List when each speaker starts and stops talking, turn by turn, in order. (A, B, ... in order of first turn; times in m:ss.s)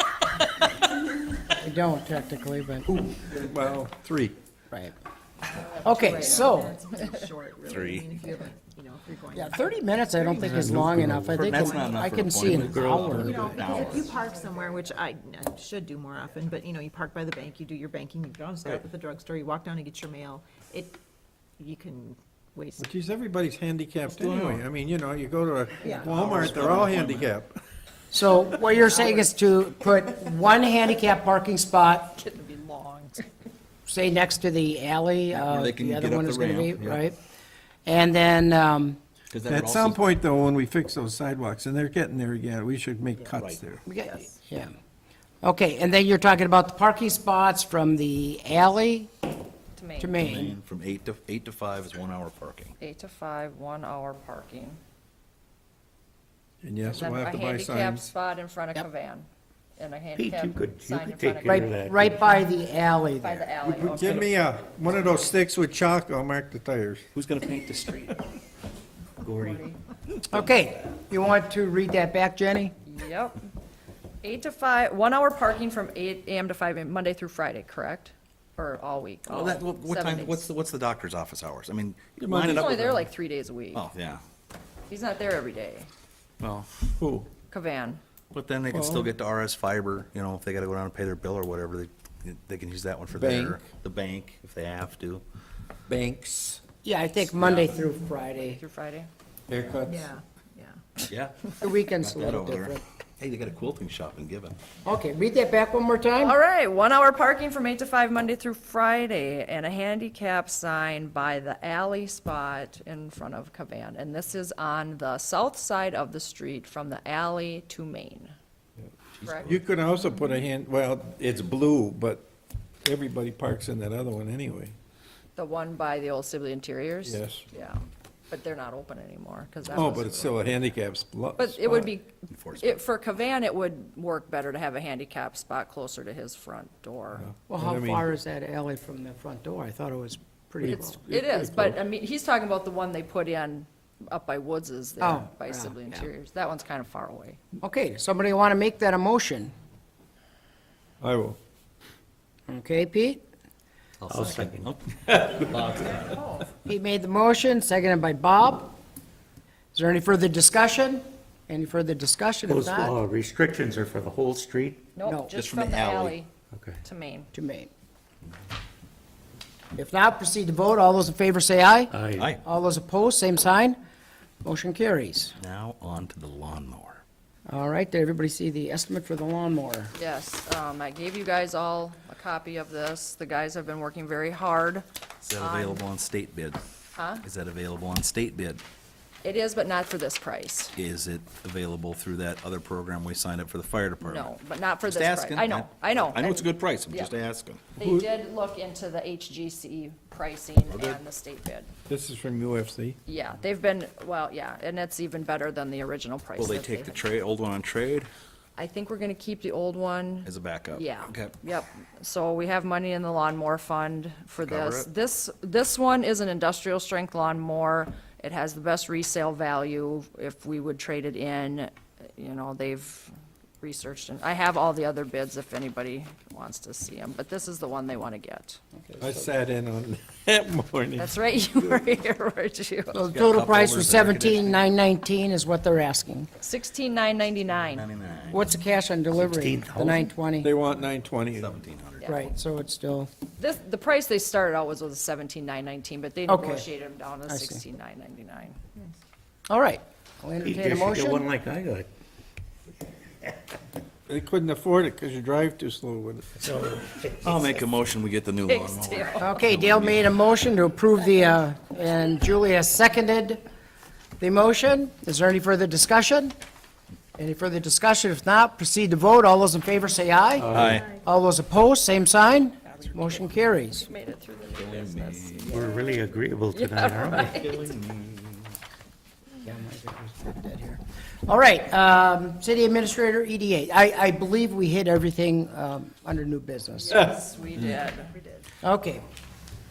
0:01.6-0:02.9 A
0:03.4-0:04.4 B
0:05.6-0:09.8 C
0:05.8-0:06.8 A
0:07.6-0:08.1 D
0:09.3-0:13.5 A
0:10.3-0:11.6 E
0:11.4-0:14.2 D
0:12.5-0:13.5 E
0:13.2-0:21.0 C
0:21.6-0:22.9 C
0:22.8-0:27.6 B
0:24.0-0:24.7 D
0:25.8-0:26.6 C
0:26.0-0:27.3 D
0:28.1-0:32.2 A
0:28.8-0:29.3 C
0:32.2-0:33.2 F
0:33.9-0:37.2 A
0:35.3-0:37.0 D
0:37.9-0:39.0 A
0:39.3-0:40.0 D
0:39.4-0:43.8 B
0:43.9-0:44.7 A
0:44.0-0:44.4 C
0:45.4-0:49.1 A
0:49.8-0:50.1 F
0:50.0-0:50.6 A
0:50.2-0:52.7 D
0:52.8-0:54.8 F
0:56.6-0:58.1 B
0:56.9-0:59.3 F
0:59.8-1:01.7 F
1:00.2-1:02.2 E
1:01.4-1:03.5 A
1:03.2-1:04.4 F
1:03.6-1:07.1 B
1:07.2-1:08.2 D
1:09.2-1:09.7 D
1:10.3-1:12.7 A
1:12.9-1:13.4 F
1:14.2-1:20.5 F
1:19.3-1:22.8 D
1:22.2-1:23.1 B
1:22.4-1:23.9 F
1:23.7-1:24.2 D
1:24.9-1:25.9 F
1:26.4-1:26.7 D
1:26.8-1:27.3 B
1:27.5-1:28.0 F
1:28.3-1:35.2 D
1:28.7-1:29.1 B
1:33.2-1:33.6 B
1:35.9-1:36.6 B
1:36.8-1:38.6 A
1:37.4-1:37.8 D
1:38.3-1:39.1 F
1:39.5-1:40.1 B
1:39.8-1:40.8 C
1:41.1-1:41.3 D
1:41.6-1:42.8 A
1:42.0-1:44.6 D
1:44.8-1:46.4 A
1:46.2-1:58.3 F
1:59.2-1:59.6 D
1:59.2-1:59.5 F
1:59.5-2:02.3 B
2:02.8-2:04.8 B
2:05.4-2:10.7 F
2:07.0-2:07.4 B
2:09.7-2:10.1 D
2:09.7-2:11.9 B
2:11.4-2:17.3 F
2:12.3-2:12.8 D
2:17.2-2:18.1 B
2:17.5-2:21.0 A
2:20.6-2:27.4 F
2:21.1-2:21.8 B
2:25.0-2:26.1 A
2:27.6-2:29.5 A
2:31.0-2:31.4 B
2:32.5-2:33.2 A
2:34.0-2:36.2 D
2:34.1-2:36.0 E
2:36.1-2:36.4 C
2:36.6-2:38.8 A
2:39.7-2:43.0 A
2:42.5-2:44.8 E
2:45.0-2:46.3 F
2:45.0-2:45.3 A
2:45.3-2:46.2 D
2:46.5-2:46.8 E
2:46.8-2:47.3 F
2:47.3-2:47.7 A
2:49.8-2:53.8 A
2:51.9-2:52.3 E
2:54.4-2:55.4 A
2:55.4-2:57.0 D
2:57.5-2:59.9 A
3:00.0-3:05.8 F
3:05.2-3:06.6 D
3:07.0-3:07.2 F
3:07.2-3:08.6 D
3:09.2-3:10.8 F
3:10.8-3:17.6 D
3:14.0-3:17.1 F
3:17.8-3:18.1 B
3:17.8-3:21.7 F
3:20.7-3:21.0 D
3:21.9-3:23.0 B
3:23.1-3:27.1 F
3:26.4-3:28.1 D
3:28.6-3:48.6 F
3:30.2-3:31.3 D
3:34.4-3:34.9 D
3:48.9-3:49.2 A
3:49.0-3:51.2 B
3:51.0-3:53.0 F
3:52.9-3:56.3 A
3:53.1-3:54.6 D
3:56.4-3:57.9 F
3:57.7-3:58.5 D
3:58.3-4:00.5 A
3:59.2-4:00.1 E
4:00.4-4:01.6 B
4:00.7-4:02.2 D
4:02.0-4:02.3 F
4:02.1-4:03.1 A
4:03.4-4:08.6 F
4:06.3-4:06.7 A
4:07.3-4:07.6 A
4:09.5-4:11.3 A
4:10.4-4:11.9 E
4:14.1-4:16.4 B
4:16.4-4:17.2 E
4:17.2-4:20.1 D
4:18.5-4:19.3 F
4:19.2-4:23.4 A
4:24.2-4:26.3 A
4:27.2-4:33.9 A
4:30.4-4:30.8 E
4:30.5-4:30.9 D
4:32.7-4:37.7 F
4:34.6-4:35.7 D
4:35.5-4:37.4 E
4:37.0-4:38.5 D
4:39.4-4:47.1 A
4:46.8-4:48.2 F
4:47.6-4:48.4 C
4:48.6-4:49.0 A